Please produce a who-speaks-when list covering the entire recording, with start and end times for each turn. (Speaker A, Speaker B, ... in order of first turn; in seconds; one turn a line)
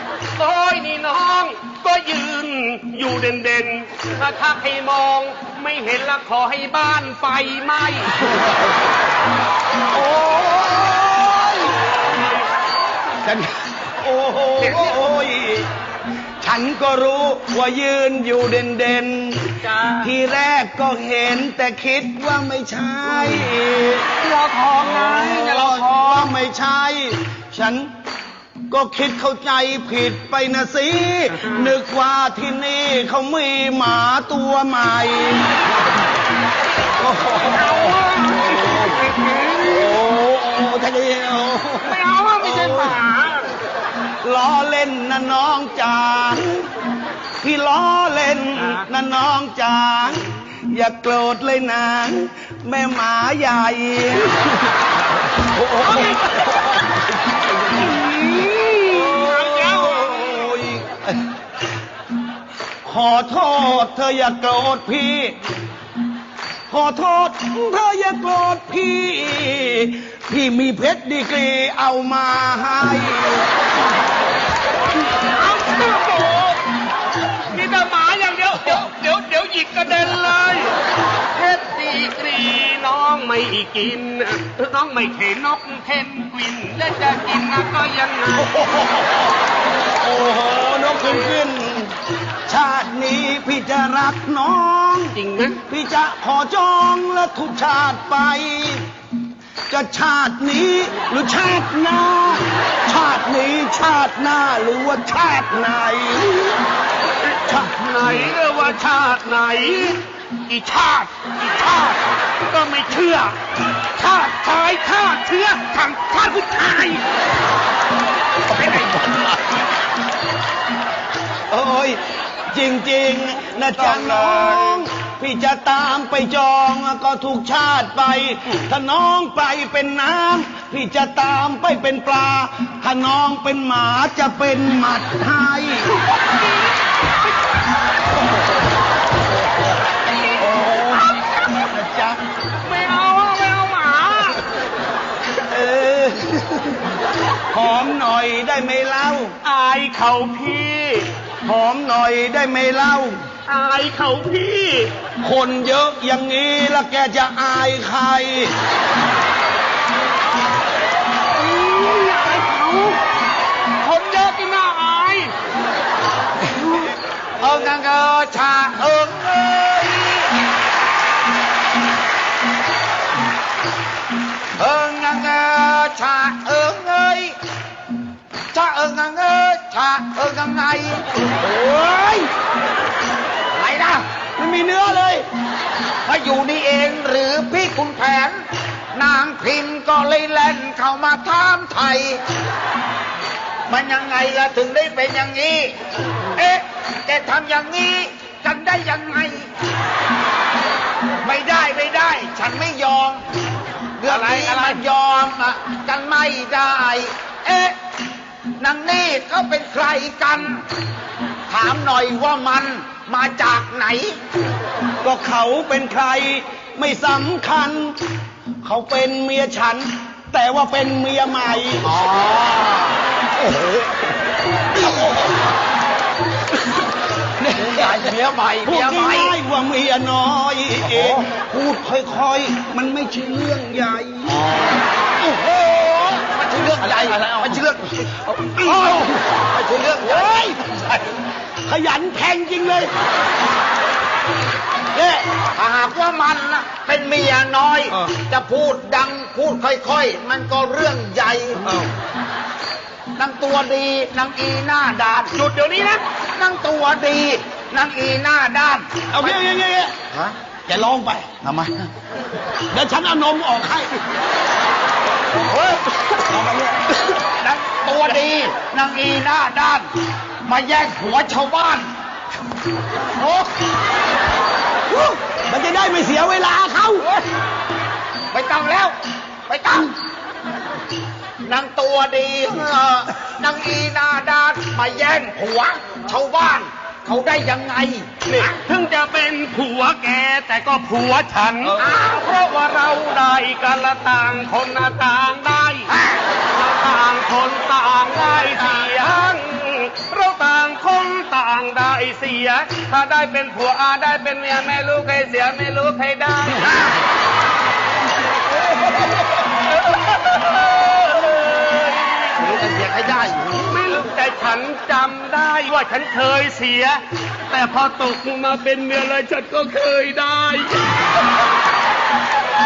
Speaker A: 0.4-8.4
Speaker B: 9.9-12.0
Speaker A: 12.1-12.4
Speaker B: 13.2-15.7
Speaker A: 14.6-15.0
Speaker B: 16.4-24.1
Speaker A: 19.6-20.1
Speaker A: 23.0-23.6
Speaker A: 24.2-26.4
Speaker B: 24.8-27.9
Speaker B: 28.7-35.7
Speaker A: 31.3-31.8
Speaker B: 37.0-39.0
Speaker A: 37.3-40.0
Speaker B: 39.6-43.0
Speaker A: 41.8-43.5
Speaker B: 44.2-46.7
Speaker B: 47.4-54.6
Speaker A: 48.6-48.9
Speaker B: 55.4-56.5
Speaker A: 55.8-56.7
Speaker A: 57.6-60.6
Speaker B: 58.9-61.3
Speaker B: 62.8-65.4
Speaker B: 66.7-73.5
Speaker A: 75.1-76.7
Speaker A: 77.5-80.8
Speaker A: 81.3-89.0
Speaker B: 90.0-95.2
Speaker A: 90.8-91.3
Speaker A: 95.1-95.6
Speaker B: 95.7-98.8
Speaker B: 99.7-106.7
Speaker A: 107.2-117.0
Speaker A: 118.5-119.2
Speaker B: 121.5-135.9
Speaker A: 123.7-124.8
Speaker A: 136.1-136.5
Speaker A: 140.3-141.2
Speaker B: 140.4-142.2
Speaker A: 142.6-144.4
Speaker B: 145.3-146.9
Speaker B: 147.5-149.3
Speaker A: 149.4-151.1
Speaker B: 151.4-153.3
Speaker A: 153.5-154.9
Speaker B: 155.2-158.6
Speaker A: 161.3-163.0
Speaker A: 163.7-165.3
Speaker C: 167.4-170.5
Speaker C: 174.6-177.3
Speaker C: 178.5-181.1
Speaker B: 181.2-182.3
Speaker C: 183.5-184.1
Speaker B: 184.4-185.3
Speaker C: 186.1-192.2
Speaker C: 193.7-195.8
Speaker C: 196.3-199.5
Speaker C: 201.2-203.2
Speaker C: 204.0-207.8
Speaker A: 204.1-204.8
Speaker C: 208.6-210.7
Speaker C: 211.5-214.2
Speaker B: 215.0-218.0
Speaker B: 218.6-221.9
Speaker C: 221.8-223.8
Speaker C: 224.8-225.1
Speaker B: 227.4-227.9
Speaker C: 227.6-229.3
Speaker B: 228.7-234.4
Speaker C: 230.9-231.3
Speaker C: 234.3-241.0
Speaker B: 238.3-239.2
Speaker B: 240.0-240.6
Speaker B: 241.7-242.9
Speaker C: 245.4-251.7
Speaker C: 253.2-255.4
Speaker A: 255.3-256.0
Speaker C: 256.4-259.4
Speaker B: 259.1-259.9
Speaker B: 260.7-261.6
Speaker B: 262.7-264.0
Speaker B: 265.7-267.1
Speaker C: 267.4-269.9
Speaker C: 270.4-271.9
Speaker C: 273.2-273.5
Speaker B: 274.9-277.1
Speaker C: 278.3-278.9
Speaker C: 279.5-279.9
Speaker C: 281.4-288.5
Speaker A: 288.3-295.9
Speaker C: 295.9-296.2
Speaker A: 296.5-306.8
Speaker C: 306.6-307.0
Speaker A: 309.0-312.4
Speaker C: 312.4-313.7
Speaker A: 313.6-321.2